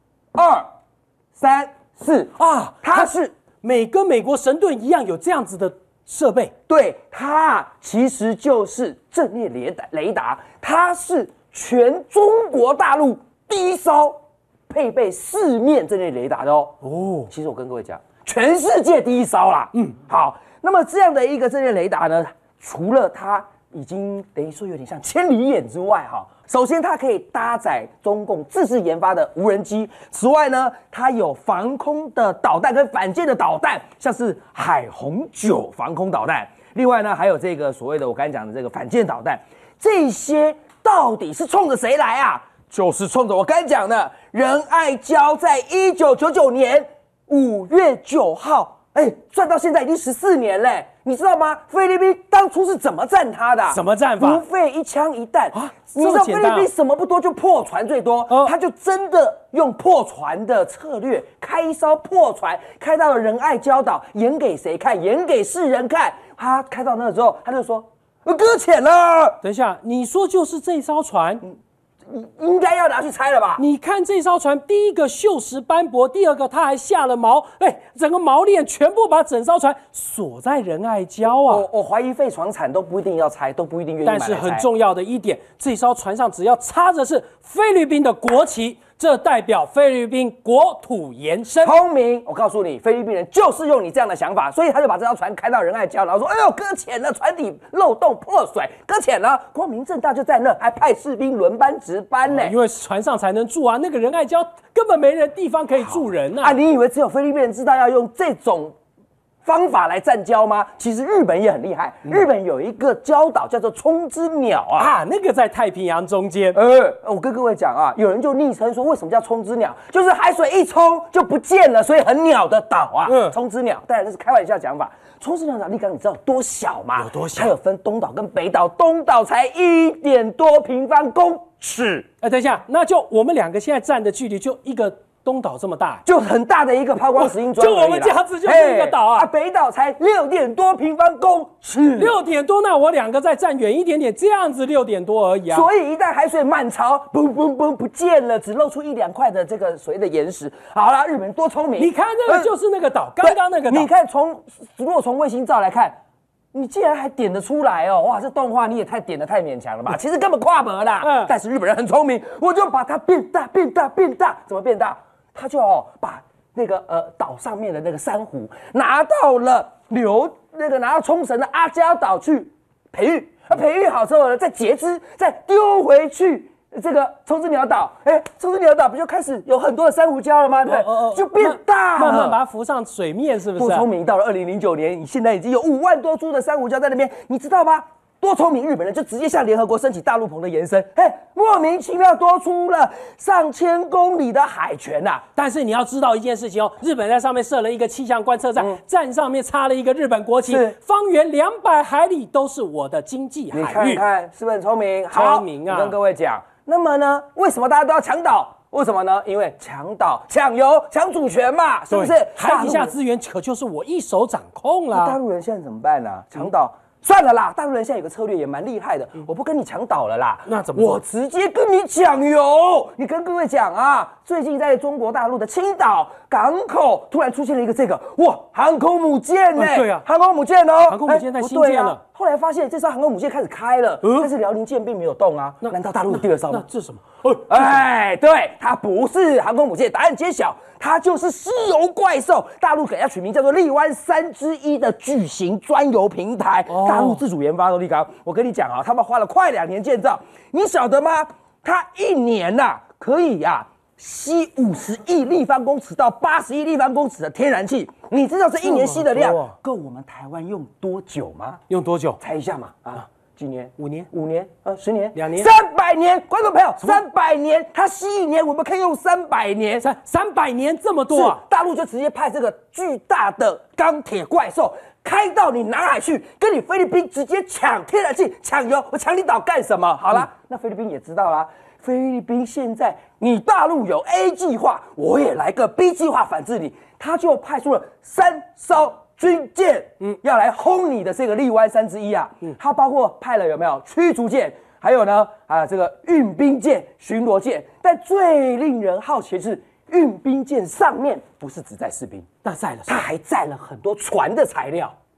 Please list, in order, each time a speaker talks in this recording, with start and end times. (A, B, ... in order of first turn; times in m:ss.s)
0:00.3-0:00.7 A
0:01.4-0:03.3 A
0:02.4-0:06.5 B
0:06.7-1:09.4 A
0:16.8-0:17.3 B
0:53.7-0:54.4 B
0:55.5-0:56.7 B
0:58.3-0:58.5 B
1:09.4-1:11.4 B
1:12.1-1:13.6 A
1:13.6-1:21.6 B
1:21.4-1:24.6 A
1:24.0-1:31.8 B
1:31.6-1:42.6 A
1:42.3-1:46.6 B
1:45.9-1:48.8 A
1:49.4-1:54.9 A
1:54.8-1:56.6 B
1:56.6-2:12.1 A
2:03.1-2:03.4 B
2:07.0-2:07.5 B
2:12.2-2:16.0 B
2:16.1-2:22.2 A
2:17.2-2:19.3 B
2:22.0-2:25.7 B
2:25.5-2:32.5 A
2:31.8-2:33.9 B
2:33.2-2:36.0 A
2:36.5-3:02.4 A
2:41.0-2:41.3 B
3:00.7-3:03.9 B
3:03.6-3:15.2 A
3:15.4-3:24.0 B
3:20.5-3:20.7 A
3:23.5-3:32.9 A
3:25.1-3:26.0 B
3:31.9-3:35.2 B
3:34.9-3:56.6 A
3:40.5-3:41.0 B
3:49.6-3:50.0 B
3:50.9-3:52.0 B
3:54.0-3:54.3 B
3:55.6-3:57.8 B
3:57.5-4:21.6 A
4:06.7-4:07.2 B
4:18.6-4:19.6 B
4:21.7-4:22.2 B
4:22.2-4:29.8 A
4:23.8-4:24.1 B
4:25.1-4:25.5 B
4:29.8-4:31.4 B
4:31.1-5:02.3 A
5:02.4-5:03.0 B
5:02.9-5:05.0 A